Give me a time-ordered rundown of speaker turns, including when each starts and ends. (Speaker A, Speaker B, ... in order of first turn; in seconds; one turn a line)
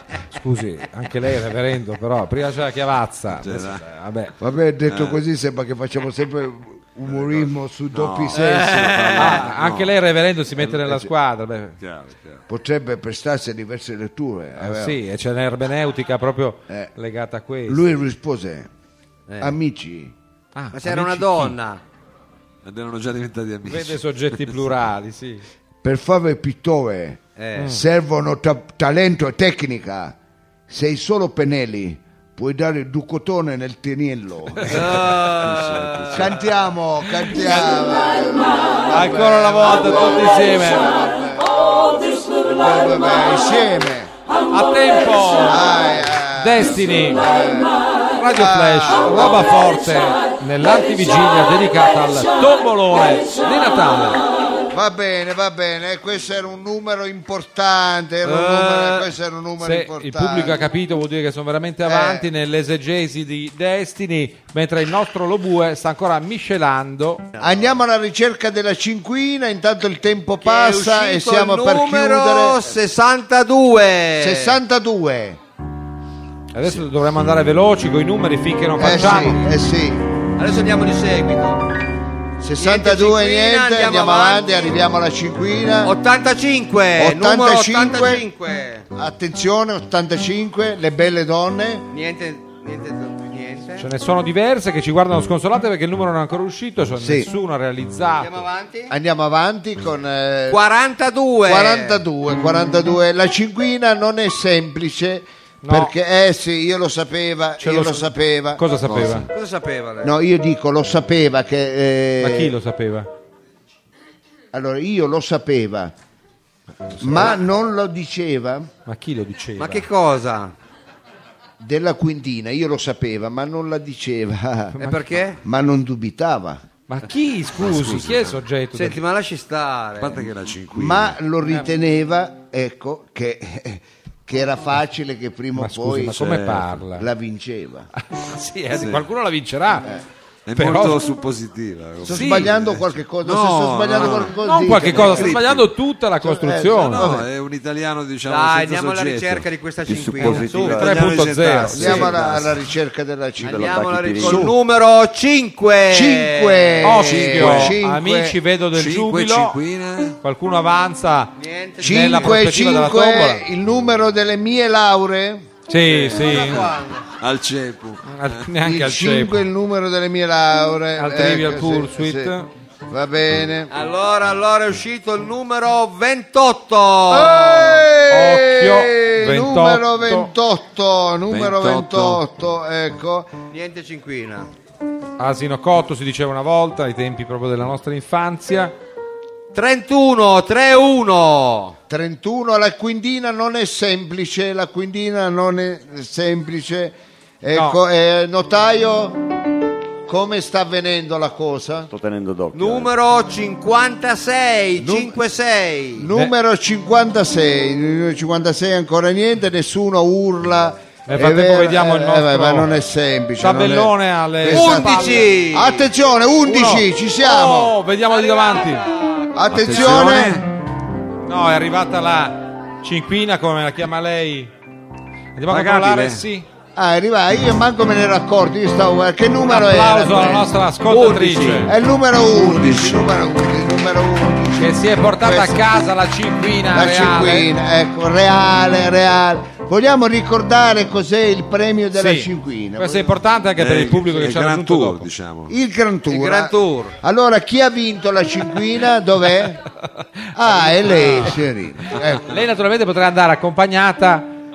Speaker A: 0.3-4.3
Speaker B: 3.4-3.8
Speaker C: 4.4-9.2
Speaker B: 4.9-5.2
Speaker B: 7.1-10.0
Speaker D: 8.3-9.5
Speaker A: 9.2-11.8
Speaker C: 10.6-11.1
Speaker B: 11.8-12.4
Speaker C: 12.5-15.0
Speaker A: 14.6-17.9
Speaker C: 17.7-18.7
Speaker D: 19.3-19.6
Speaker C: 19.4-20.1
Speaker A: 20.6-21.6
Speaker D: 20.7-21.8
Speaker B: 22.6-24.6
Speaker A: 23.7-25.4
Speaker C: 25.8-30.2
Speaker D: 27.4-27.7
Speaker A: 27.6-27.8
Speaker C: 30.7-35.1
Speaker D: 34.7-36.3
Speaker B: 35.3-36.3
Speaker C: 36.1-44.1
Speaker A: 37.3-37.7
Speaker A: 38.9-40.9
Speaker A: 44.5-47.3
Speaker C: 45.5-47.8
Speaker A: 48.2-54.2
Speaker C: 48.3-49.5
Speaker C: 54.7-60.6
Speaker D: 58.3-59.0
Speaker A: 59.6-67.3
Speaker C: 61.9-62.3
Speaker C: 67.4-72.7
Speaker D: 70.4-74.6
Speaker C: 74.2-75.4
Speaker A: 76.5-79.4
Speaker C: 78.8-80.1
Speaker D: 80.4-81.7
Speaker C: 82.4-86.0
Speaker D: 82.6-84.8
Speaker D: 85.8-88.9
Speaker C: 87.0-88.2
Speaker C: 88.9-91.9
Speaker D: 91.9-93.9
Speaker A: 93.8-98.5
Speaker C: 97.0-97.3
Speaker D: 98.2-98.9
Speaker C: 98.9-100.6
Speaker D: 100.5-102.0
Speaker C: 101.5-108.6
Speaker A: 105.6-105.9
Speaker A: 107.6-109.3
Speaker B: 108.8-109.3
Speaker D: 109.3-110.1
Speaker C: 110.0-112.5
Speaker A: 112.2-113.1
Speaker C: 114.5-115.9
Speaker C: 117.0-118.7
Speaker A: 118.9-119.9
Speaker D: 119.6-120.5
Speaker C: 121.6-124.8
Speaker A: 124.8-125.0
Speaker D: 124.8-125.4
Speaker C: 125.4-126.6
Speaker A: 126.9-129.0
Speaker B: 127.6-128.4
Speaker D: 128.7-130.3
Speaker B: 130.0-131.2
Speaker C: 130.7-136.2
Speaker A: 135.6-137.1
Speaker B: 136.1-136.8
Speaker C: 136.9-137.9
Speaker A: 138.0-139.9
Speaker C: 138.8-139.0
Speaker B: 140.5-144.4
Speaker A: 140.6-141.1
Speaker C: 142.0-145.7
Speaker A: 142.1-142.5
Speaker A: 144.3-147.1
Speaker B: 145.0-145.4
Speaker C: 146.2-147.2
Speaker B: 146.7-152.5
Speaker D: 147.0-147.2
Speaker D: 148.2-150.9
Speaker E: 149.9-151.2
Speaker A: 150.2-152.2
Speaker C: 151.7-154.6
Speaker E: 153.4-154.5
Speaker D: 153.4-156.9
Speaker C: 155.9-158.4
Speaker A: 156.8-159.6
Speaker B: 157.0-157.8
Speaker B: 158.7-160.2
Speaker A: 160.2-163.4
Speaker D: 161.4-162.4
Speaker C: 161.8-165.5
Speaker A: 165.7-166.7
Speaker D: 165.9-167.1
Speaker B: 167.2-168.5
Speaker A: 168.1-169.4
Speaker C: 168.6-172.3
Speaker A: 171.0-172.5
Speaker C: 172.9-173.7
Speaker D: 173.7-177.9
Speaker C: 177.1-183.3
Speaker A: 178.1-180.3
Speaker B: 181.3-182.2
Speaker D: 183.5-184.5
Speaker A: 185.2-188.7
Speaker D: 189.5-191.8
Speaker C: 191.9-199.2
Speaker A: 197.5-197.8
Speaker C: 200.1-201.9
Speaker E: 201.9-202.9
Speaker D: 202.5-206.1
Speaker C: 204.8-205.2
Speaker C: 206.0-217.7
Speaker A: 211.1-212.7
Speaker A: 213.4-215.3
Speaker D: 214.5-215.9
Speaker A: 216.4-218.9
Speaker D: 218.1-220.2
Speaker C: 219.3-220.5
Speaker B: 219.5-220.5
Speaker A: 221.2-224.5
Speaker A: 225.4-226.5
Speaker B: 225.5-226.2
Speaker C: 226.8-230.6
Speaker A: 229.5-231.8
Speaker D: 230.9-231.7
Speaker C: 231.7-235.8
Speaker B: 232.2-233.1
Speaker A: 234.6-237.5
Speaker C: 236.7-243.2
Speaker A: 241.9-245.1
Speaker B: 243.6-245.5
Speaker C: 245.5-249.6
Speaker D: 246.1-247.0
Speaker C: 250.3-252.3
Speaker A: 250.4-251.4
Speaker A: 251.9-254.3